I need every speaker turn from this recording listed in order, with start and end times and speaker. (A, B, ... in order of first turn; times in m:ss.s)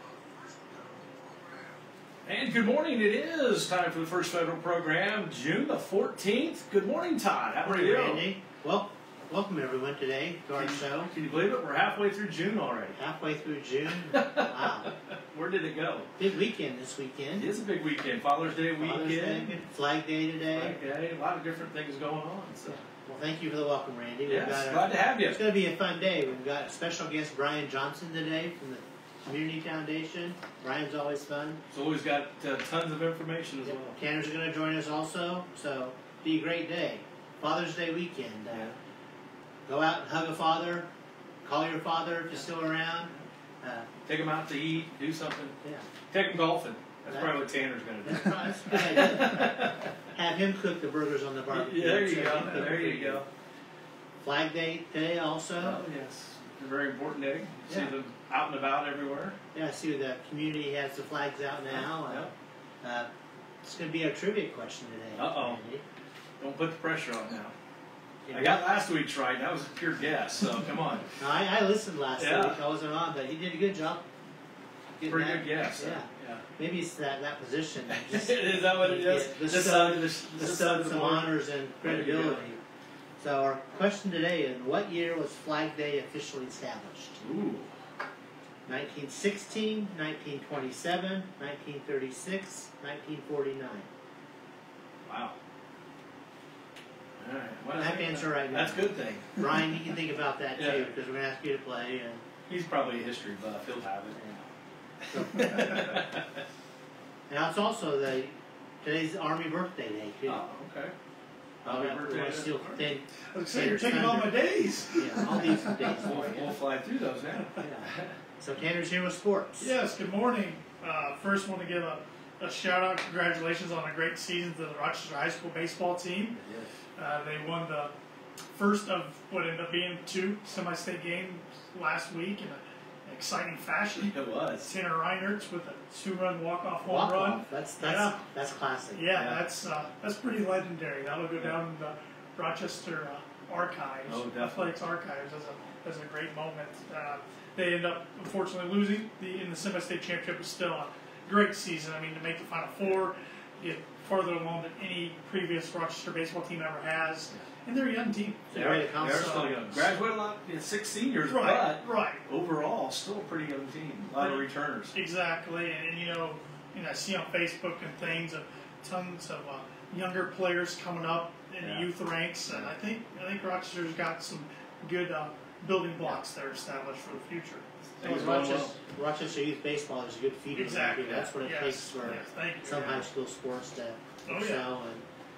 0:02.2-0:08.2 A
0:07.6-0:11.1 B
0:10.5-0:13.0 A
0:12.9-0:14.9 B
0:14.1-0:16.1 A
0:16.2-0:17.5 B
0:17.4-0:19.6 A
0:18.8-0:20.8 B
0:20.5-0:22.8 A
0:22.6-0:31.6 B
0:24.2-0:25.4 A
0:31.7-0:34.0 A
0:33.6-0:38.8 B
0:39.6-0:40.9 B
0:41.4-0:43.9 B
0:44.0-0:45.6 A
0:45.6-0:45.9 B
0:46.1-0:49.9 A
0:47.1-0:47.4 B
0:48.0-0:53.2 B
0:51.5-0:53.2 A
0:54.2-0:55.8 B
0:55.6-0:59.4 A
0:57.7-0:57.9 B
0:59.5-1:02.3 B
1:01.7-1:02.3 A
1:02.8-1:03.1 B
1:03.6-1:05.8 B
1:05.1-1:05.6 A
1:06.4-1:07.5 A
1:08.3-1:08.6 B
1:08.3-1:11.1 A
1:11.2-1:14.0 B
1:12.2-1:12.6 A
1:15.0-1:22.6 B
1:15.0-1:16.4 A
1:17.9-1:22.4 A
1:23.2-1:27.2 B
1:27.2-1:27.7 A
1:28.6-1:33.9 B
1:35.0-1:35.4 A
1:37.2-1:39.7 A
1:37.7-1:42.2 B
1:40.6-1:40.9 A
1:42.5-1:44.4 A
1:45.1-1:45.8 B
1:45.2-1:46.4 A
1:47.3-1:50.4 B
1:50.2-1:50.9 A
1:51.6-1:52.8 A
1:51.6-1:54.4 B
1:53.3-1:55.9 C
1:54.9-1:56.6 B
1:55.3-1:58.2 A
1:57.6-1:59.7 B
1:59.6-2:06.4 C
2:06.3-2:06.7 A
2:07.0-2:07.9 C
2:08.5-2:18.2 C
2:14.0-2:14.7 A
2:16.8-2:19.1 B
2:18.9-2:39.5 C
2:19.1-2:19.4 A
2:24.0-2:24.7 A
2:38.5-2:39.7 B
2:38.5-2:44.9 A
2:41.3-2:42.2 C
2:44.1-2:57.6 C
2:51.6-2:51.9 A
2:52.5-2:52.7 A
2:58.0-2:58.7 A
2:58.0-3:05.0 B
3:00.5-3:03.0 C
3:04.2-3:04.7 C